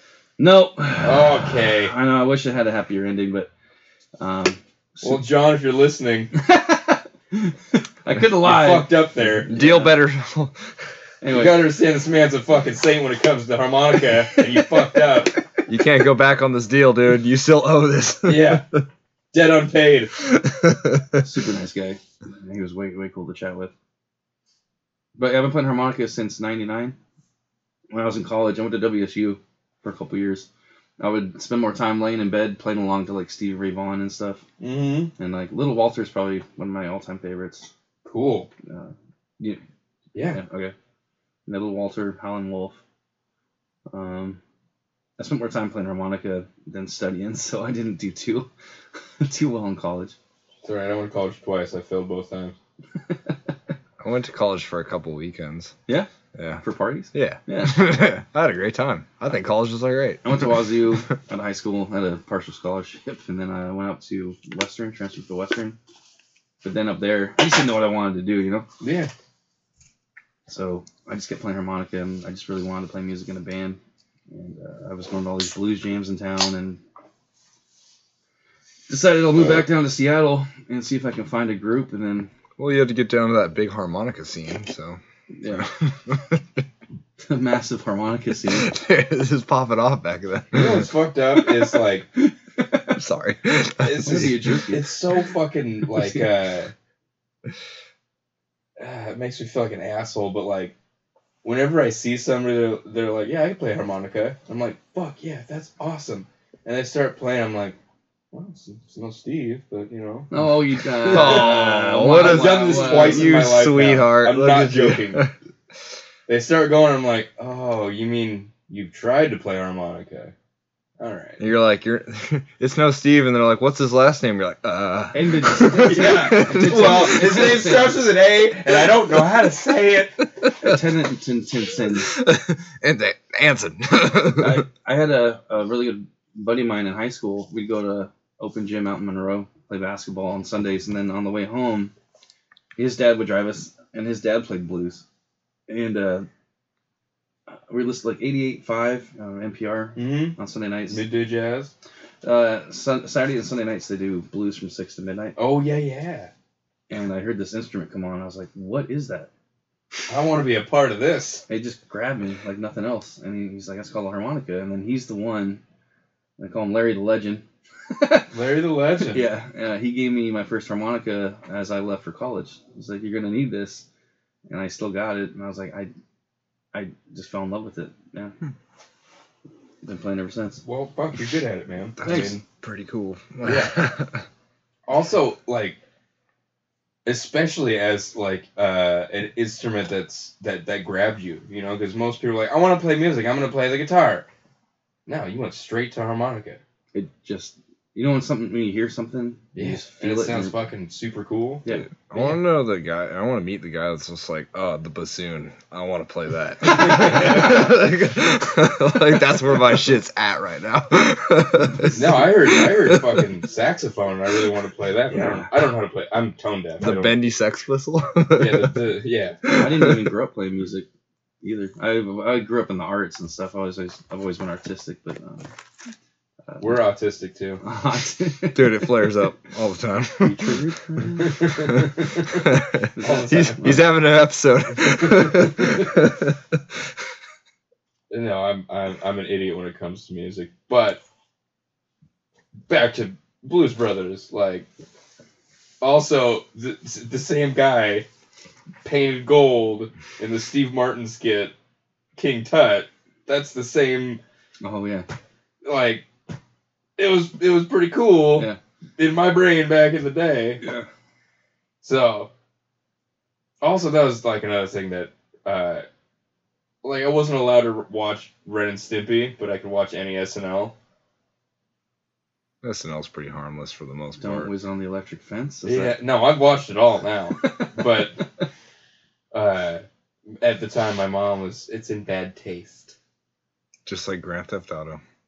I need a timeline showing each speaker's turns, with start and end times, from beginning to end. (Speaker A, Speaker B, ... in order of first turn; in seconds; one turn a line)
Speaker A: 0.4-3.5
Speaker B: 1.0-1.9
Speaker A: 4.2-5.2
Speaker B: 5.0-6.3
Speaker A: 6.3-10.0
Speaker B: 8.4-9.5
Speaker C: 9.5-10.6
Speaker A: 11.2-11.7
Speaker B: 11.3-15.4
Speaker C: 15.7-18.8
Speaker B: 18.2-18.6
Speaker B: 19.3-20.1
Speaker C: 20.3-21.2
Speaker A: 21.2-23.7
Speaker A: 25.2-27.0
Speaker A: 27.9-30.5
Speaker A: 31.0-34.4
Speaker B: 34.6-35.1
Speaker A: 35.2-37.7
Speaker B: 38.0-38.5
Speaker A: 38.7-39.6
Speaker B: 40.1-40.4
Speaker A: 40.3-40.7
Speaker A: 41.5-42.8
Speaker A: 43.9-44.4
Speaker A: 45.2-48.5
Speaker A: 49.2-50.2
Speaker B: 50.6-52.5
Speaker C: 54.0-55.8
Speaker C: 56.4-60.8
Speaker A: 56.6-57.8
Speaker A: 60.2-65.8
Speaker A: 66.6-68.7
Speaker B: 68.8-69.1
Speaker A: 70.5-73.8
Speaker A: 74.3-76.8
Speaker A: 78.9-82.3
Speaker C: 82.6-86.6
Speaker A: 85.3-85.7
Speaker A: 87.2-88.7
Speaker C: 88.5-90.9
Speaker B: 90.5-92.1
Speaker A: 92.2-93.0
Speaker C: 92.9-94.4
Speaker B: 93.8-96.7
Speaker A: 94.0-95.0
Speaker A: 96.0-96.3
Speaker B: 98.8-100.7
Speaker B: 101.4-107.8
Speaker B: 108.3-110.3
Speaker A: 110.3-113.4
Speaker B: 111.0-115.2
Speaker C: 111.1-115.3
Speaker B: 116.3-120.3
Speaker B: 121.0-121.4
Speaker C: 121.4-127.2
Speaker A: 125.1-128.1
Speaker B: 125.7-130.2
Speaker A: 130.6-132.2
Speaker C: 132.1-134.6
Speaker A: 134.4-141.9
Speaker A: 142.8-145.0
Speaker A: 145.7-146.3
Speaker A: 147.5-151.1
Speaker B: 150.0-150.4
Speaker B: 150.9-151.7
Speaker A: 152.2-155.4
Speaker B: 155.4-156.3
Speaker A: 156.9-159.3
Speaker B: 160.1-161.4
Speaker A: 161.5-165.6
Speaker A: 166.4-168.3
Speaker B: 168.3-169.3
Speaker A: 169.0-173.8
Speaker A: 174.5-175.9
Speaker A: 176.7-178.3
Speaker A: 179.8-180.6
Speaker B: 180.7-182.4
Speaker C: 182.0-184.2
Speaker A: 182.1-182.4
Speaker B: 183.4-183.8
Speaker B: 184.9-185.8
Speaker B: 187.1-194.3
Speaker B: 195.1-196.6
Speaker A: 196.9-200.6
Speaker B: 199.6-201.7
Speaker C: 202.1-213.3
Speaker B: 206.8-207.6
Speaker B: 211.9-217.2
Speaker A: 215.1-215.5
Speaker C: 216.8-218.9
Speaker B: 218.3-219.6
Speaker C: 219.5-220.1
Speaker A: 219.5-220.9
Speaker A: 221.4-225.5
Speaker A: 226.5-226.8
Speaker B: 226.6-227.6
Speaker A: 227.6-229.1
Speaker C: 228.5-230.6
Speaker A: 230.2-231.4
Speaker B: 231.2-232.4
Speaker C: 231.7-236.6
Speaker A: 233.0-233.8
Speaker B: 233.0-233.9
Speaker B: 234.8-235.5
Speaker B: 238.1-241.0
Speaker B: 242.7-244.7
Speaker B: 245.8-248.1
Speaker B: 248.8-251.5
Speaker B: 252.2-254.2
Speaker A: 254.6-255.1
Speaker B: 255.6-256.1
Speaker B: 257.0-260.6
Speaker A: 260.6-260.9
Speaker B: 261.8-262.3
Speaker B: 263.6-265.9
Speaker B: 266.8-270.7
Speaker C: 272.6-274.5
Speaker A: 274.2-276.0
Speaker B: 275.6-278.2
Speaker A: 277.4-277.8
Speaker B: 279.3-282.9
Speaker C: 283.9-285.0